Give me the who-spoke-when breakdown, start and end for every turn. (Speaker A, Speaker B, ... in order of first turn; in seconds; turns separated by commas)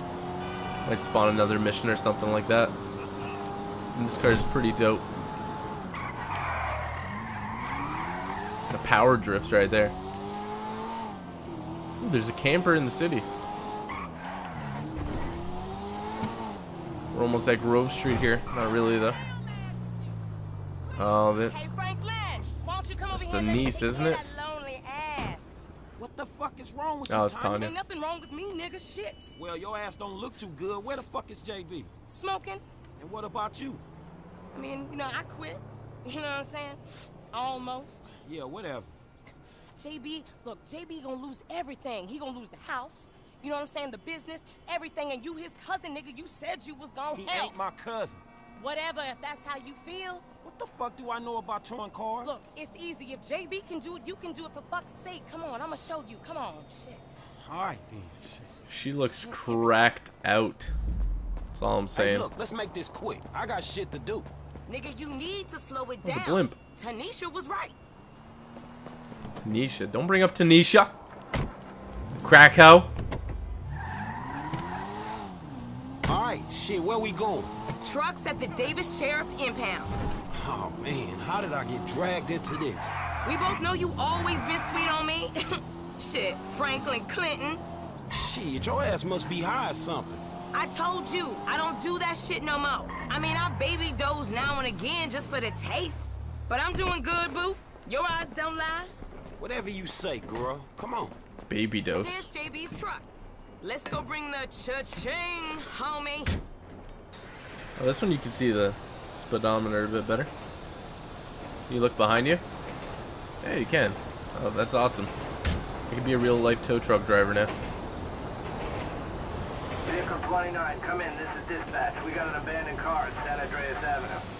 Speaker A: 0.8-2.8, Speaker A: 3.9-5.0, Speaker A: 8.7-9.9, Speaker A: 12.0-13.3, Speaker A: 17.1-19.2, Speaker A: 21.0-21.6, Speaker B: 21.4-25.6, Speaker A: 23.1-24.2, Speaker C: 26.0-27.7, Speaker A: 27.1-27.7, Speaker B: 27.6-29.3, Speaker C: 29.3-31.9, Speaker B: 32.1-32.6, Speaker C: 33.0-33.8, Speaker B: 34.5-36.8, Speaker B: 37.3-38.1, Speaker C: 38.1-38.9, Speaker B: 39.8-47.6, Speaker C: 47.1-48.2, Speaker B: 48.6-50.2, Speaker C: 50.4-52.4, Speaker B: 52.2-57.1, Speaker C: 57.4-58.6, Speaker A: 58.7-60.7, Speaker B: 59.0-59.8, Speaker A: 61.5-62.3, Speaker C: 61.9-64.3, Speaker B: 64.7-67.7, Speaker A: 66.0-66.6, Speaker A: 69.4-70.9, Speaker A: 72.2-72.9, Speaker C: 76.1-77.5, Speaker B: 77.8-79.9, Speaker C: 80.3-83.0, Speaker B: 83.2-85.4, Speaker B: 86.0-87.6, Speaker C: 88.1-90.3, Speaker B: 90.5-98.9, Speaker C: 99.4-101.2, Speaker A: 101.5-102.3, Speaker B: 102.0-103.0, Speaker B: 103.6-106.3, Speaker A: 107.8-110.3, Speaker A: 111.7-112.4, Speaker A: 113.4-115.1, Speaker A: 115.9-117.5, Speaker D: 119.8-124.3